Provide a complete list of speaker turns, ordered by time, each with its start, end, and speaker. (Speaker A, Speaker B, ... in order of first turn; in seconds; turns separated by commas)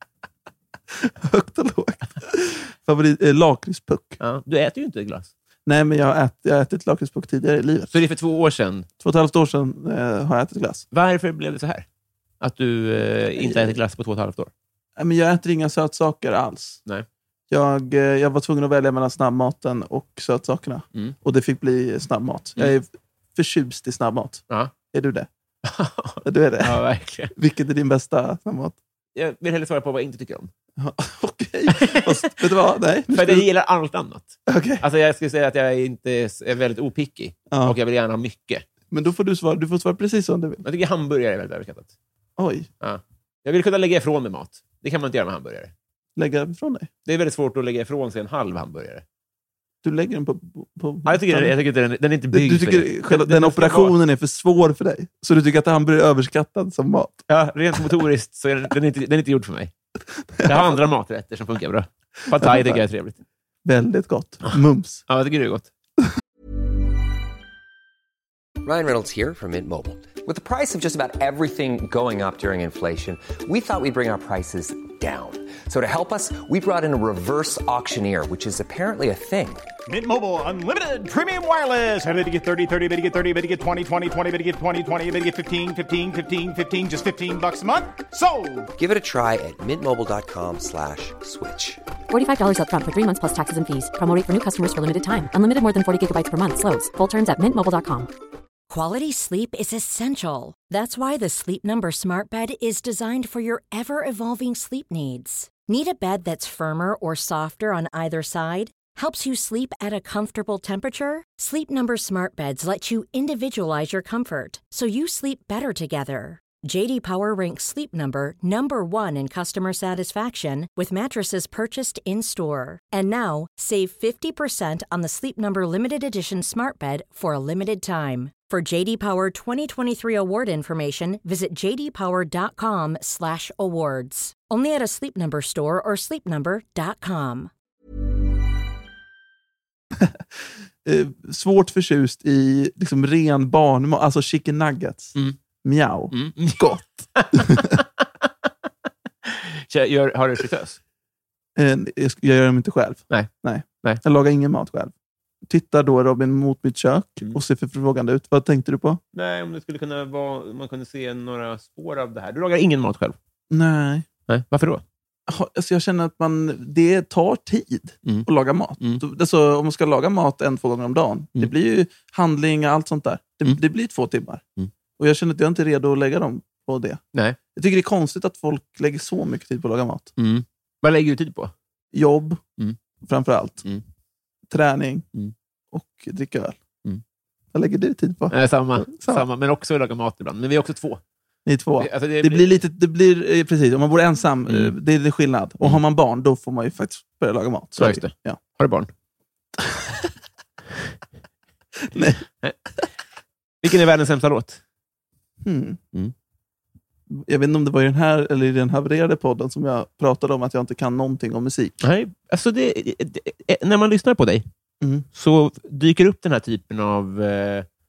Speaker A: 1.0-4.2, Speaker B: 4.2-5.3, Speaker A: 5.7-7.9, Speaker B: 7.9-8.9, Speaker A: 9.0-10.8, Speaker B: 10.9-11.9, Speaker B: 12.4-14.5, Speaker A: 13.4-13.8, Speaker A: 15.0-16.8, Speaker A: 17.5-25.3, Speaker B: 25.6-27.3, Speaker A: 26.2-28.8, Speaker B: 29.1-30.5, Speaker A: 30.8-33.5, Speaker B: 31.7-32.3, Speaker B: 33.1-38.6, Speaker A: 34.5-34.8, Speaker A: 37.5-37.8, Speaker A: 38.9-40.6, Speaker B: 40.6-41.9, Speaker A: 42.4-42.7, Speaker B: 42.8-45.7, Speaker A: 46.2-46.9, Speaker B: 47.1-49.0, Speaker A: 49.8-51.5, Speaker B: 51.1-54.0, Speaker A: 52.3-57.3, Speaker B: 57.3-59.7, Speaker A: 60.4-60.8, Speaker B: 60.4-63.2, Speaker A: 62.3-62.8, Speaker A: 63.6-65.0, Speaker B: 65.1-65.7, Speaker C: 68.6-79.7, Speaker D: 79.9-88.7, Speaker C: 88.8-91.8, Speaker E: 92.1-98.1, Speaker F: 98.7-137.5, Speaker A: 140.0-147.8, Speaker B: 146.1-147.8, Speaker B: 149.3-150.8, Speaker A: 151.6-154.9, Speaker A: 155.5-159.0, Speaker B: 159.1-163.2, Speaker A: 163.5-164.1, Speaker B: 164.3-164.8, Speaker A: 165.3-174.4, Speaker A: 175.0-177.0, Speaker A: 177.5-180.1, Speaker B: 180.2-181.5, Speaker A: 181.9-182.4, Speaker A: 183.0-183.7, Speaker A: 184.5-185.1, Speaker A: 185.7-186.6, Speaker A: 187.5-189.3, Speaker B: 188.3-191.0, Speaker A: 191.4-198.4, Speaker B: 191.8-192.5, Speaker B: 197.8-198.9, Speaker A: 199.7-199.9, Speaker A: 201.9-202.2, Speaker B: 203.6-204.6, Speaker A: 205.4-205.8, Speaker A: 207.1-211.8, Speaker B: 211.8-214.5, Speaker A: 214.8-215.1, Speaker B: 215.1-217.7